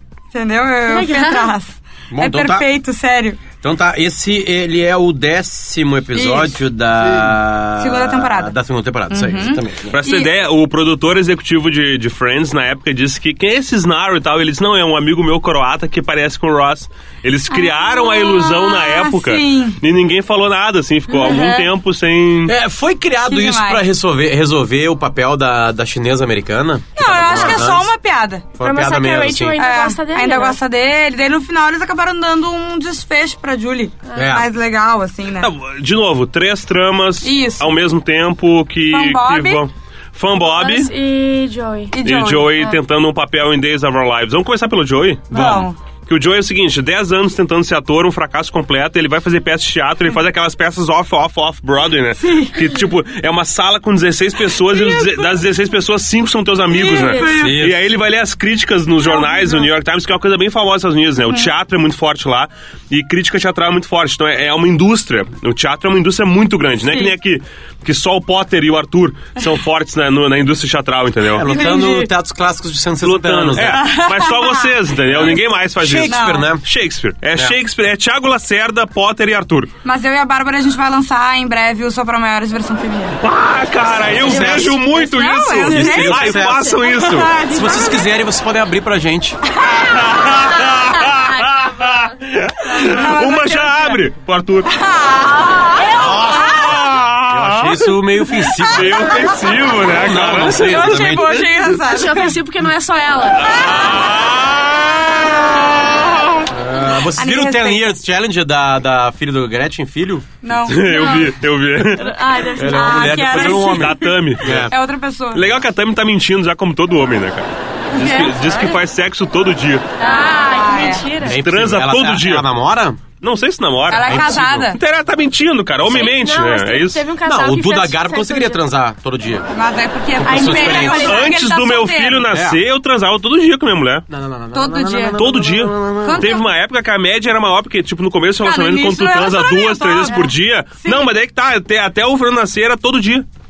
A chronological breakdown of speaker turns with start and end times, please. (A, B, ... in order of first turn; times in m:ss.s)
0:00.3-0:03.4 A
0:00.9-0:01.5 B
0:02.1-0:02.6 C
0:03.6-0:10.0 C
0:06.1-0:06.6 A
0:07.8-0:08.5 A
0:09.1-0:10.3 A
0:09.9-0:22.5 D
0:17.5-0:19.8 A
0:21.1-0:21.7 A
0:22.4-0:27.9 C
0:23.3-0:23.8 A
0:27.0-0:28.4 A
0:28.6-0:29.6 C
0:28.6-0:30.6 B
0:29.6-0:35.5 A
0:34.1-0:34.5 C
0:35.4-0:40.9 D
0:37.2-0:37.7 A
0:38.9-0:39.6 A
0:40.3-0:42.0 B
0:41.9-0:42.7 A
0:42.0-1:11.4 D
0:45.3-0:45.8 A
0:45.3-0:45.6 C
0:52.2-0:52.6 A
0:54.5-0:55.4 A
0:56.7-0:57.6 A
0:57.2-0:57.8 C
0:59.0-0:59.7 A
1:11.3-1:13.8 C
1:11.4-1:12.1 A
1:13.0-1:19.7 D
1:13.6-1:14.8 A
1:15.0-1:16.6 C
1:16.1-1:16.5 A
1:19.8-1:23.2 A
1:23.2-1:27.4 D
1:24.0-1:24.8 C
1:24.2-1:28.0 A
1:25.6-1:29.4 C
1:27.5-1:28.0 B
1:29.5-1:31.2 A
1:29.6-1:34.7 D
1:32.6-1:34.0 A
1:34.7-1:36.8 A
1:35.4-1:36.8 B
1:35.9-1:41.6 C
1:36.4-1:38.0 D
1:38.5-1:39.3 A
1:38.6-1:41.3 D
1:40.4-1:42.4 A
1:41.8-1:44.0 B
1:43.3-1:46.4 D
1:43.4-1:44.4 A
1:45.2-1:45.9 A
1:46.5-1:50.3 C
1:47.1-1:47.9 A
1:50.4-1:51.3 A
1:50.7-1:52.2 D
1:50.9-1:51.2 B
1:51.8-1:53.3 B
1:52.5-1:54.7 C
1:52.6-1:55.4 A
1:53.1-1:54.7 D
1:55.3-1:59.9 D
1:57.9-1:58.3 A
1:58.0-1:58.7 B
2:00.0-2:01.1 A
2:00.0-2:01.4 B
2:01.2-2:03.0 C
2:01.2-2:02.4 D
2:03.2-2:07.0 D
2:03.9-2:04.8 A
2:04.0-2:04.6 C
2:05.8-2:08.6 B
2:07.2-2:09.5 C
2:09.5-2:12.3 A
2:10.2-2:11.2 C
2:10.2-2:11.3 B
2:10.9-2:14.0 D
2:12.3-2:12.6 C
2:14.1-2:16.3 C
2:14.5-2:15.2 A
2:15.2-2:23.2 D
2:16.0-2:16.4 A
2:18.4-2:21.1 A